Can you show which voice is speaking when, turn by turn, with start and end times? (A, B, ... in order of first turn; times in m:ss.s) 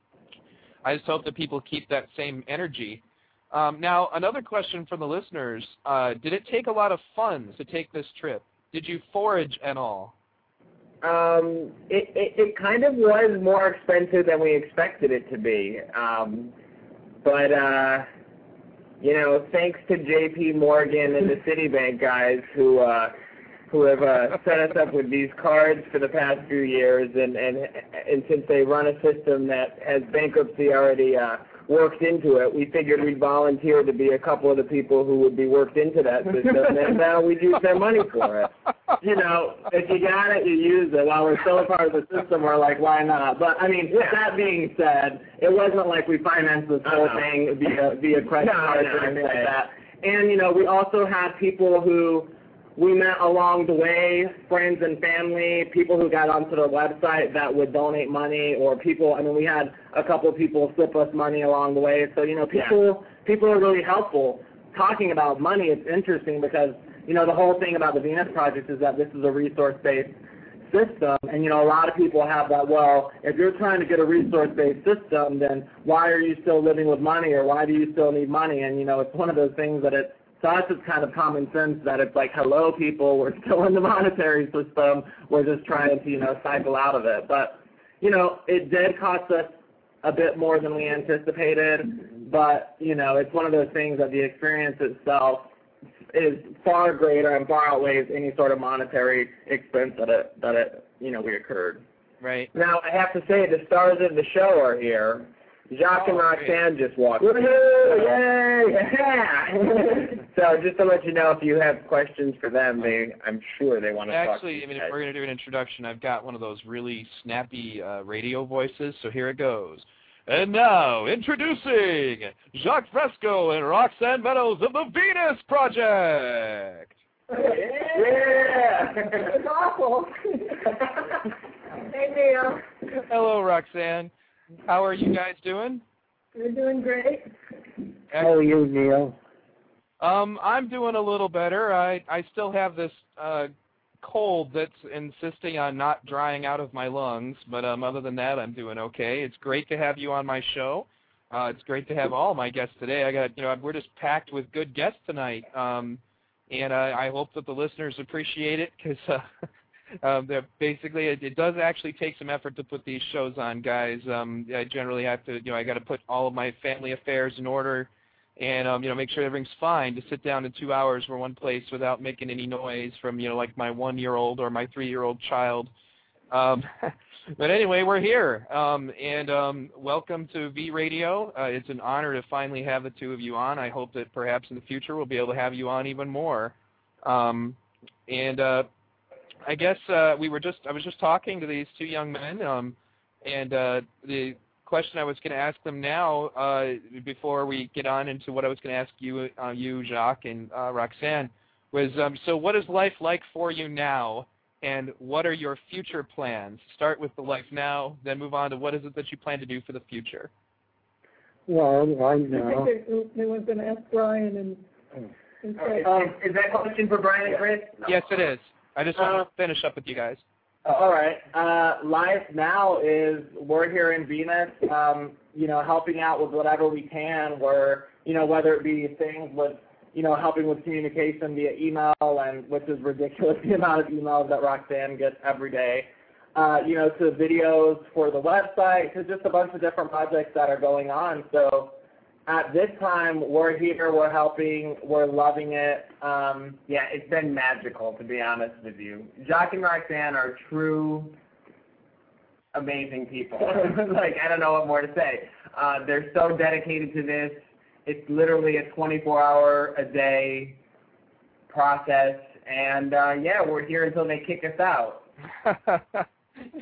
0:00.8-0:10.1 A
0:11.0-0:16.5 B
0:17.2-0:18.1 B
0:19.0-0:23.2 B
0:23.7-0:38.5 B
0:39.0-1:35.5 C
0:43.9-0:44.2 B
0:46.8-0:47.3 B
0:48.4-0:49.5 B
1:36.1-1:41.8 C
1:42.2-1:42.5 A
1:42.5-1:55.0 B
1:46.0-1:46.6 A
1:47.2-1:48.2 C
1:54.1-2:07.0 A
2:07.3-2:08.0 D
2:07.9-2:09.3 B
2:09.1-2:10.8 D
2:11.8-2:12.7 D
2:12.9-2:14.1 A
2:14.7-2:15.8 A
2:16.4-2:17.3 D
2:18.2-2:19.2 E
2:20.0-2:23.5 A
2:24.0-2:39.3 A
2:40.0-2:55.7 A
2:56.3-3:08.7 A
3:09.5-3:30.3 A
3:31.5-3:32.7 E
3:32.3-3:34.6 D
3:35.4-3:35.9 D
3:35.7-3:37.9 B
3:37.9-3:40.2 A
3:40.7-4:01.8 C
4:02.3-4:06.6 C
4:06.5-4:11.2 B
4:12.5-4:20.6 B
4:21.5-4:25.1 B
4:25.4-4:26.1 A